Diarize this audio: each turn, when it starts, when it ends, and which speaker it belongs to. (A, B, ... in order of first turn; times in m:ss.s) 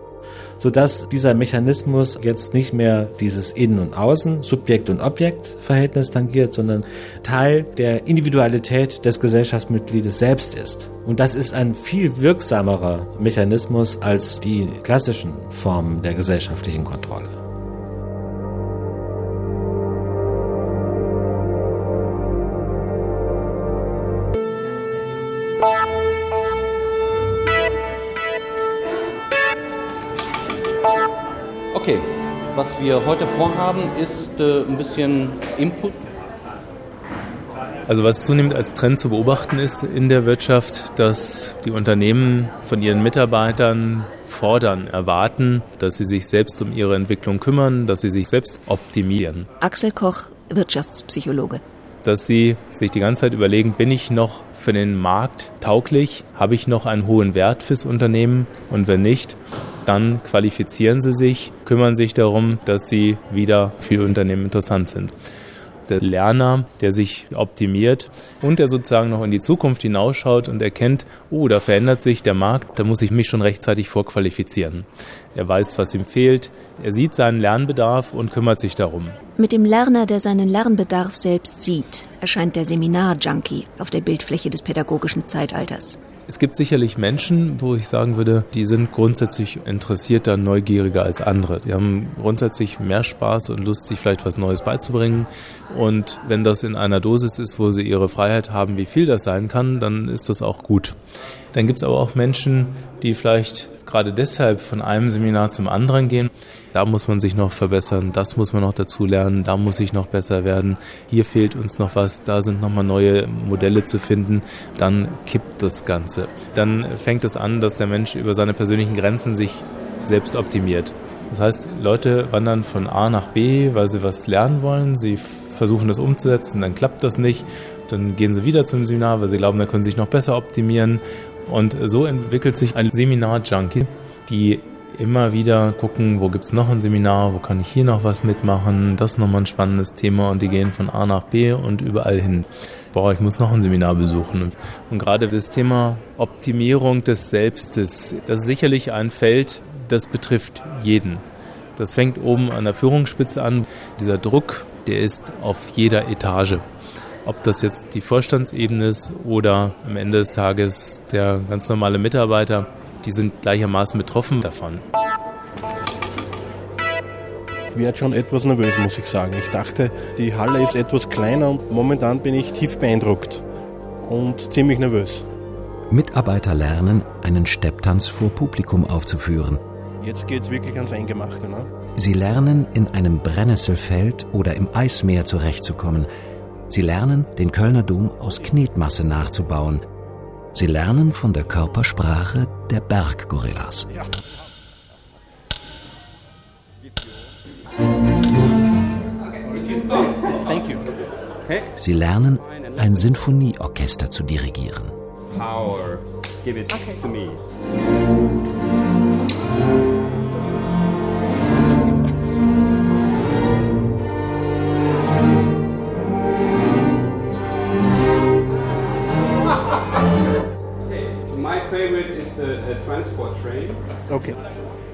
0:00.6-0:17.3 A
0:31.7-0:36.0 B
0:37.9-0:49.5 C
0:49.6-0:51.6 D
0:52.0-1:05.1 C
1:05.9-1:19.2 C
1:19.4-1:26.0 D
1:26.3-1:41.0 C
1:41.5-2:31.2 C
2:31.8-2:36.6 C
2:37.2-2:44.8 C
2:47.7-2:53.4 E
2:54.0-2:55.2 E
2:55.9-2:59.6 F
3:00.0-3:01.7 E
3:02.0-3:06.1 F
3:06.7-3:09.8 F
3:10.5-3:13.9 F
3:20.4-3:20.8 B
3:21.8-3:24.9 F
3:44.1-3:44.4 E